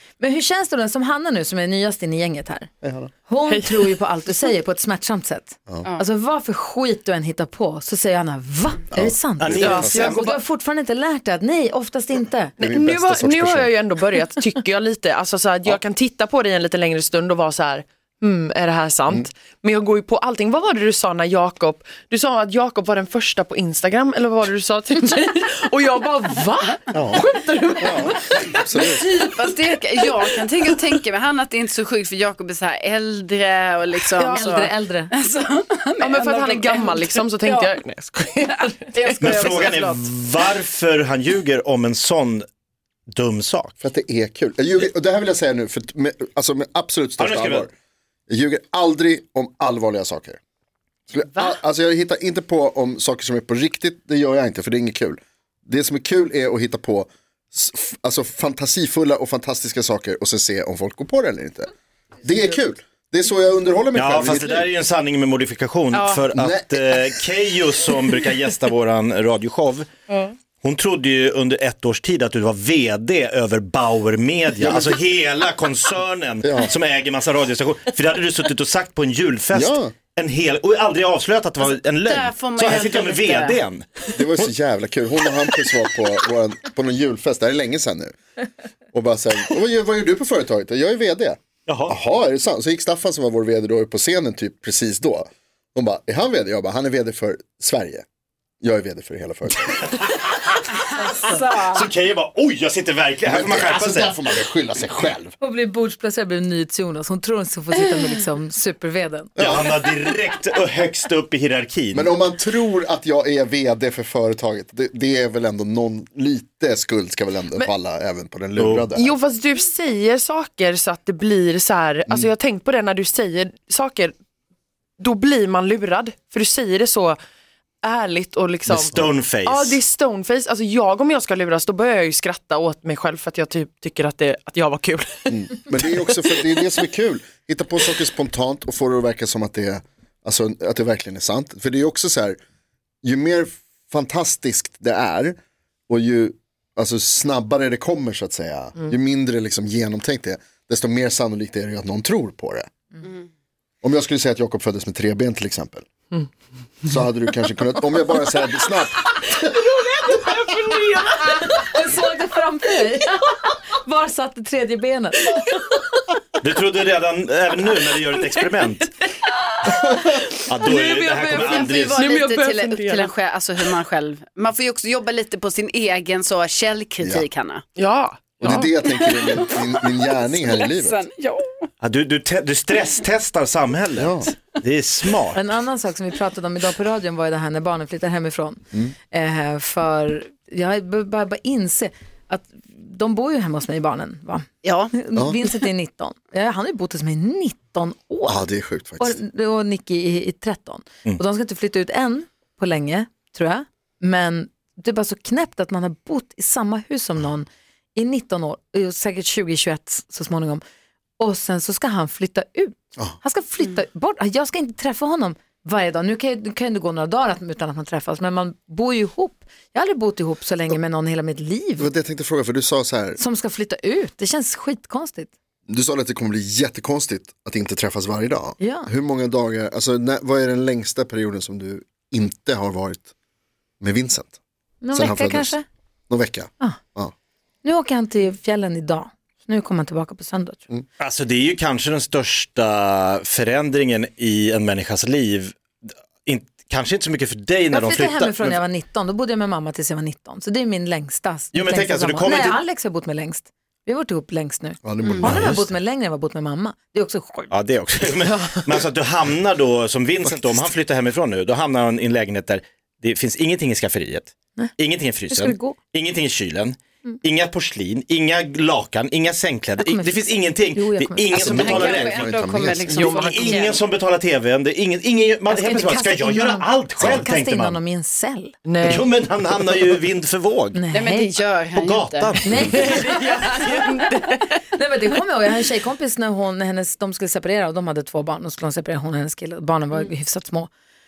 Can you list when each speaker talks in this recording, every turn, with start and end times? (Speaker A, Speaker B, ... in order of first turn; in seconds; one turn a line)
Speaker A: 0.2-2.7
Speaker B: 2.8-3.1
Speaker A: 3.3-12.6
Speaker C: 3.5-3.9
Speaker B: 8.9-10.1
Speaker D: 9.4-10.4
Speaker C: 9.6-10.2
Speaker B: 12.6-13.7
Speaker C: 12.6-30.8
Speaker B: 26.9-27.2
Speaker B: 27.8-29.1
Speaker E: 29.1-37.7
Speaker A: 34.2-35.1
Speaker C: 36.0-39.4
Speaker E: 38.9-40.0
Speaker D: 39.2-42.4
Speaker D: 43.1-43.7
Speaker B: 43.8-47.7
Speaker D: 47.2-47.6
Speaker B: 48.3-50.4
Speaker B: 51.1-61.7
Speaker B: 62.2-64.7
Speaker D: 63.9-69.9
Speaker E: 65.9-66.2
Speaker B: 66.3-66.8
Speaker D: 70.6-83.8
Speaker B: 74.6-75.0
Speaker B: 76.4-76.7
Speaker B: 79.5-79.9
Speaker E: 81.7-83.6
Speaker B: 84.2-88.2
Speaker B: 88.9-98.0
Speaker D: 91.7-91.9
Speaker B: 98.6-99.7
Speaker D: 99.7-104.2
Speaker A: 101.1-101.4
Speaker B: 103.3-105.3
Speaker A: 105.4-109.3
Speaker B: 109.4-109.7
Speaker D: 109.4-112.1
Speaker B: 111.9-119.1
Speaker D: 118.6-118.9
Speaker C: 119.0-124.2
Speaker C: 125.0-127.2
Speaker C: 127.8-136.0
Speaker D: 128.7-129.8
Speaker B: 135.3-142.4
Speaker B: 143.0-145.4
Speaker B: 145.9-152.7
Speaker B: 153.8-155.8
Speaker B: 156.8-159.6
Speaker C: 159.1-161.7
Speaker A: 161.6-165.5
Speaker D: 166.4-168.9
Speaker C: 169.0-173.1
Speaker D: 170.5-172.1
Speaker E: 171.3-177.6
Speaker B: 177.0-177.3
Speaker C: 177.8-178.7
Speaker B: 178.4-181.0
Speaker E: 178.4-181.7
Speaker D: 181.8-185.4
Speaker B: 184.0-184.3
Speaker A: 185.3-188.6
Speaker A: 189.1-198.5
Speaker E: 194.6-194.9
Speaker B: 195.1-195.4
Speaker B: 198.2-199.2
Speaker A: 199.0-210.6
Speaker A: 211.2-221.9
Speaker B: 221.8-223.2
Speaker A: 223.2-225.3
Speaker B: 225.7-233.1
Speaker A: 228.6-228.9
Speaker B: 233.8-234.4
Speaker A: 234.8-235.6
Speaker B: 234.9-235.6
Speaker B: 236.1-237.1
Speaker A: 237.6-240.6
Speaker D: 241.0-248.6
Speaker A: 247.7-257.5
Speaker D: 251.5-252.6
Speaker B: 254.8-255.6
Speaker E: 255.0-255.4
Speaker D: 255.2-255.7
Speaker D: 257.5-272.2
Speaker C: 258.2-258.8
Speaker B: 260.2-260.7
Speaker A: 265.3-265.8
Speaker A: 269.8-271.4
Speaker E: 271.3-273.8
Speaker B: 271.4-272.9
Speaker D: 272.9-277.8
Speaker C: 272.9-273.7
Speaker A: 275.5-278.5
Speaker B: 277.0-277.3
Speaker C: 278.6-279.1
Speaker D: 278.8-280.8
Speaker A: 280.7-281.4
Speaker E: 280.9-282.4
Speaker D: 281.8-283.0
Speaker A: 282.4-283.4
Speaker C: 282.7-284.6
Speaker A: 284.7-290.7